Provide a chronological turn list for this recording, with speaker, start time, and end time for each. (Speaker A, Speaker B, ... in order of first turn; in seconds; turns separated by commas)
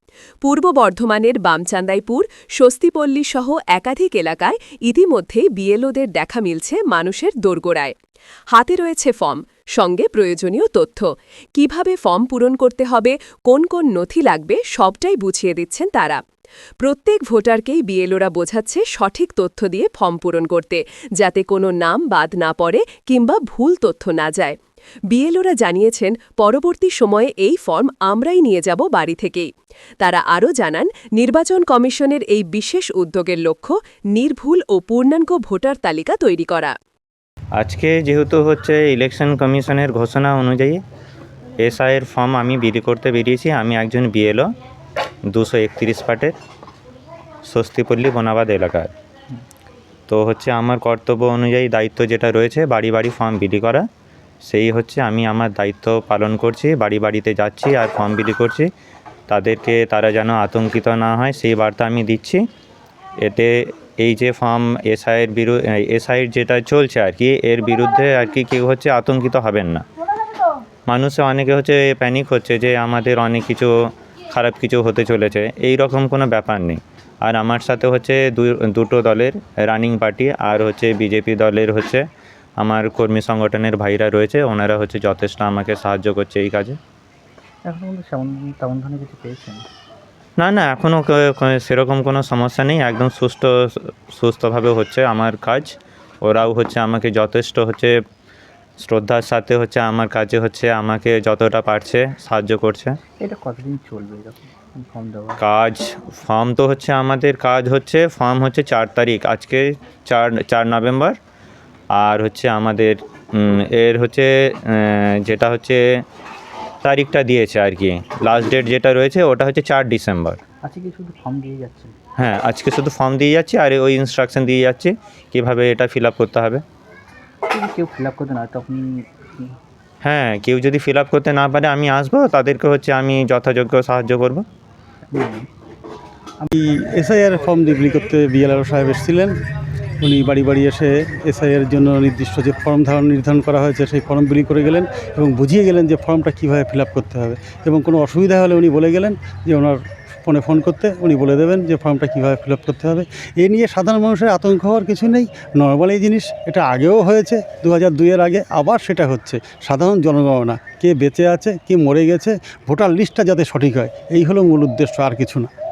Speaker A: 0.4-7.9, Speaker A: 8.5-16.2, Speaker A: 16.8-24.6, Speaker A: 25.1-29.5, Speaker A: 30.0-36.7, Speaker B: 37.6-40.8, Speaker B: 41.6-44.5, Speaker B: 45.3-46.4, Speaker B: 47.5-48.9, Speaker B: 50.1-53.9, Speaker B: 54.4-58.7, Speaker B: 59.3-62.4, Speaker B: 63.2-69.8, Speaker B: 70.9-73.7, Speaker B: 74.3-82.0, Speaker B: 82.6-86.8, Speaker C: 87.7-89.6, Speaker B: 90.4-98.0, Speaker B: 98.8-103.0, Speaker C: 103.2-105.4, Speaker B: 105.4-111.2, Speaker B: 112.0-115.8, Speaker B: 116.8-120.4, Speaker C: 120.7-121.9, Speaker B: 122.2-126.6, Speaker C: 127.5-128.8, Speaker B: 130.0-134.4, Speaker C: 135.1-135.4, Speaker D: 136.5-139.3, Speaker D: 140.0-165.5